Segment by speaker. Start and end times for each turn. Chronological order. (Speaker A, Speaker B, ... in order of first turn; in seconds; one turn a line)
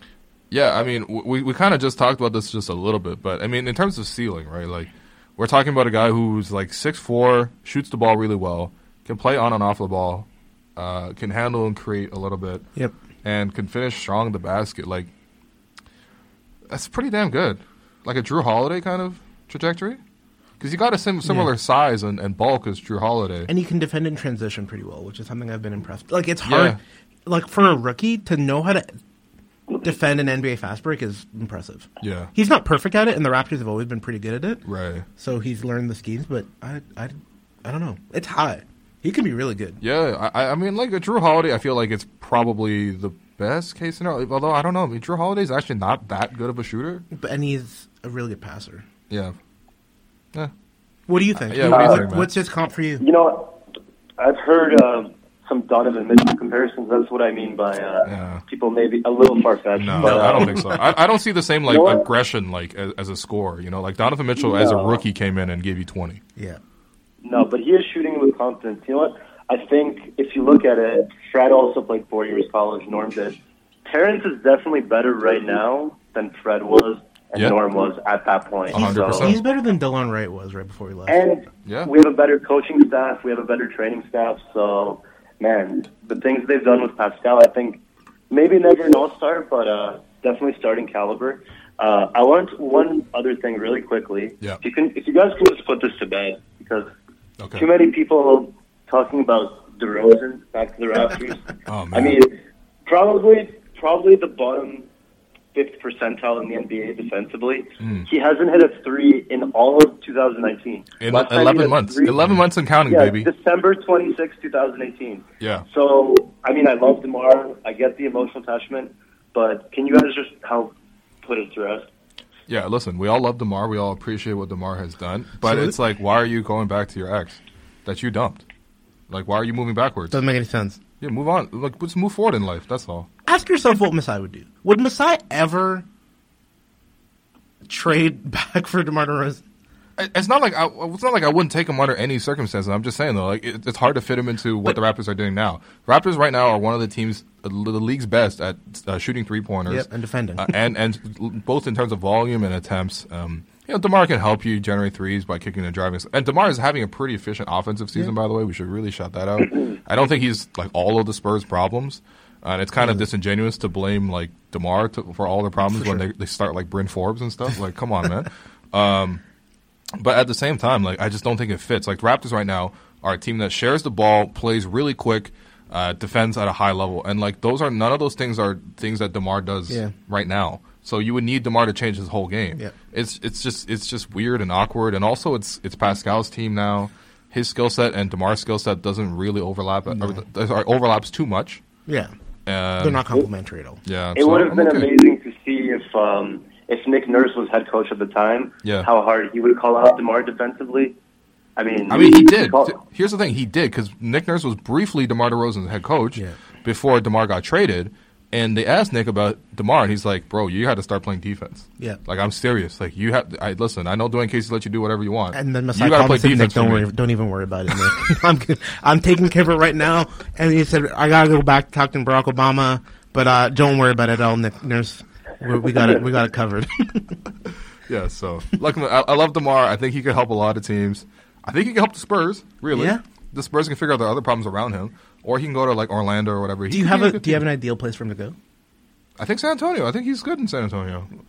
Speaker A: 0.5-12.7
Speaker A: 13.2-15.1
Speaker A: 16.7-20.0
Speaker A: 20.6-23.5
Speaker B: 21.2-21.5
Speaker B: 23.5-28.9
Speaker A: 26.4-26.8
Speaker B: 29.8-34.6
Speaker A: 32.0-32.3
Speaker A: 34.7-35.1
Speaker B: 35.2-39.8
Speaker A: 39.8-47.0
Speaker B: 47.1-48.9
Speaker A: 49.1-49.4
Speaker B: 51.1-53.0
Speaker A: 51.4-52.3
Speaker C: 51.7-52.0
Speaker C: 53.0-53.6
Speaker C: 54.2-60.7
Speaker A: 58.1-58.4
Speaker A: 59.8-66.2
Speaker B: 60.0-61.0
Speaker C: 61.7-62.1
Speaker C: 64.4-65.0
Speaker C: 67.2-79.3
Speaker A: 78.7-79.4
Speaker B: 78.7-81.2
Speaker C: 81.1-96.9
Speaker A: 81.7-81.9
Speaker A: 97.4-97.7
Speaker C: 97.5-104.9
Speaker A: 101.7-102.2
Speaker C: 105.5-121.9
Speaker A: 107.8-108.1
Speaker A: 111.0-113.3
Speaker A: 115.4-115.7
Speaker A: 122.5-128.4
Speaker B: 125.4-125.8
Speaker A: 129.1-130.2
Speaker B: 130.1-130.8
Speaker A: 131.0-133.1
Speaker B: 133.3-135.9
Speaker B: 137.7-139.4
Speaker A: 140.0-169.2
Speaker B: 149.7-150.6
Speaker B: 162.8-163.1
Speaker B: 165.7-166.0
Speaker A: 170.0-191.6
Speaker B: 189.9-190.2
Speaker B: 191.9-192.1
Speaker A: 192.5-193.2
Speaker B: 192.8-193.8
Speaker A: 193.9-194.9
Speaker C: 194.2-201.0
Speaker A: 198.6-198.9
Speaker C: 201.6-202.8
Speaker A: 201.9-216.9
Speaker B: 215.3-227.2
Speaker A: 227.9-237.4
Speaker B: 232.7-233.0
Speaker B: 236.7-238.4
Speaker A: 239.2-241.1